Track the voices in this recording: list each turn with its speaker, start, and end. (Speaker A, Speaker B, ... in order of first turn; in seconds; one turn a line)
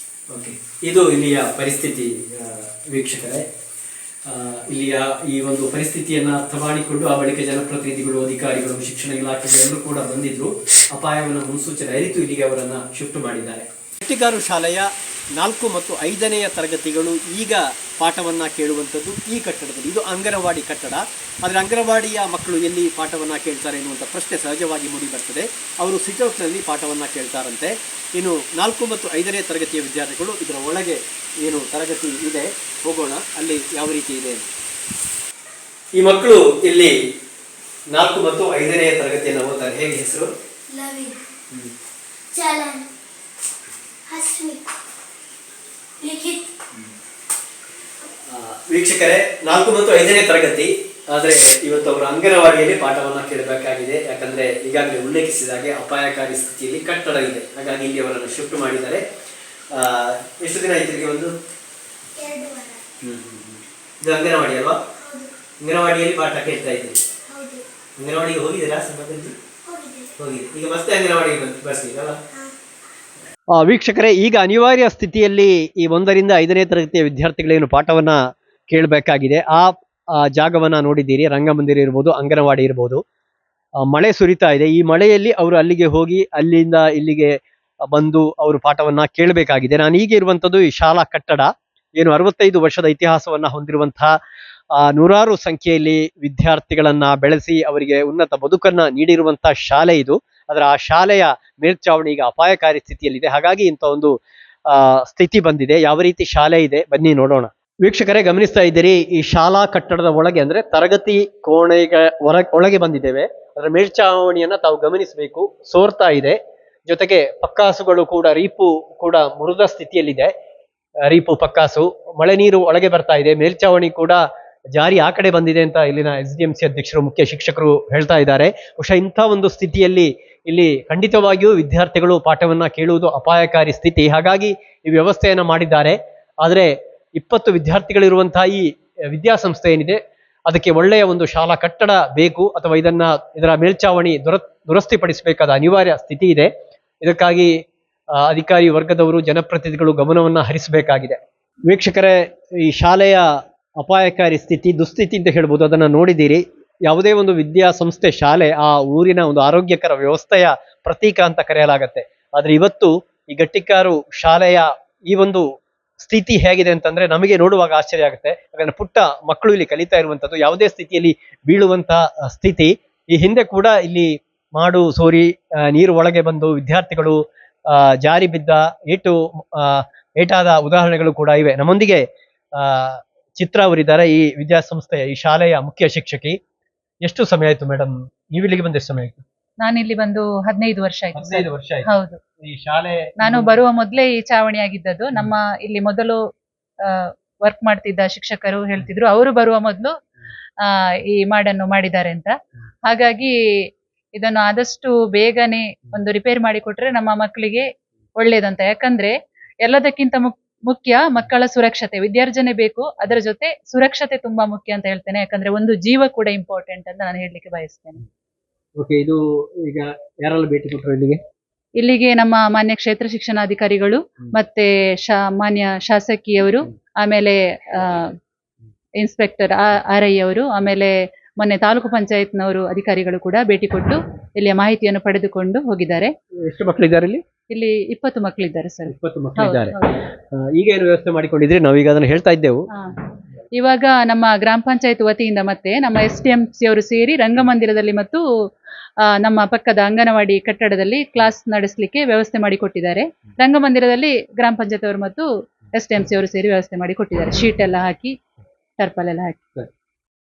Speaker A: 0.3-3.5
Speaker A: 4.3-34.5
Speaker A: 36.0-36.9
Speaker A: 37.9-40.3
Speaker B: 40.7-41.2
Speaker B: 42.3-42.9
Speaker B: 44.1-44.6
Speaker B: 46.0-46.4
Speaker A: 48.3-59.0
Speaker A: 59.7-61.3
Speaker B: 62.2-62.8
Speaker A: 63.0-64.8
Speaker B: 65.0-65.3
Speaker A: 65.6-67.0
Speaker B: 67.3-67.6
Speaker A: 68.0-69.3
Speaker B: 69.7-70.1
Speaker A: 70.2-72.2
Speaker A: 73.6-78.2
Speaker A: 78.7-83.0
Speaker A: 83.9-87.4
Speaker A: 87.9-94.2
Speaker A: 94.8-104.2
Speaker A: 104.7-120.3
Speaker A: 121.1-124.2
Speaker A: 124.8-146.5
Speaker A: 147.0-147.5
Speaker A: 148.2-153.2
Speaker A: 153.8-165.5
Speaker A: 166.0-182.1
Speaker A: 182.6-186.4
Speaker A: 187.0-189.2
Speaker C: 189.6-192.2
Speaker A: 191.2-191.9
Speaker A: 192.4-193.6
Speaker C: 193.2-196.2
Speaker C: 197.0-199.9
Speaker C: 200.6-203.3
Speaker C: 204.2-207.7
Speaker C: 208.2-218.0
Speaker A: 218.8-221.2
Speaker C: 221.8-228.1
Speaker C: 229.0-236.1
Speaker A: 236.4-237.2
Speaker C: 237.5-239.9
Speaker A: 238.9-239.8
Speaker A: 240.3-242.7
Speaker C: 243.5-248.2
Speaker C: 249.2-258.1
Speaker C: 258.8-259.4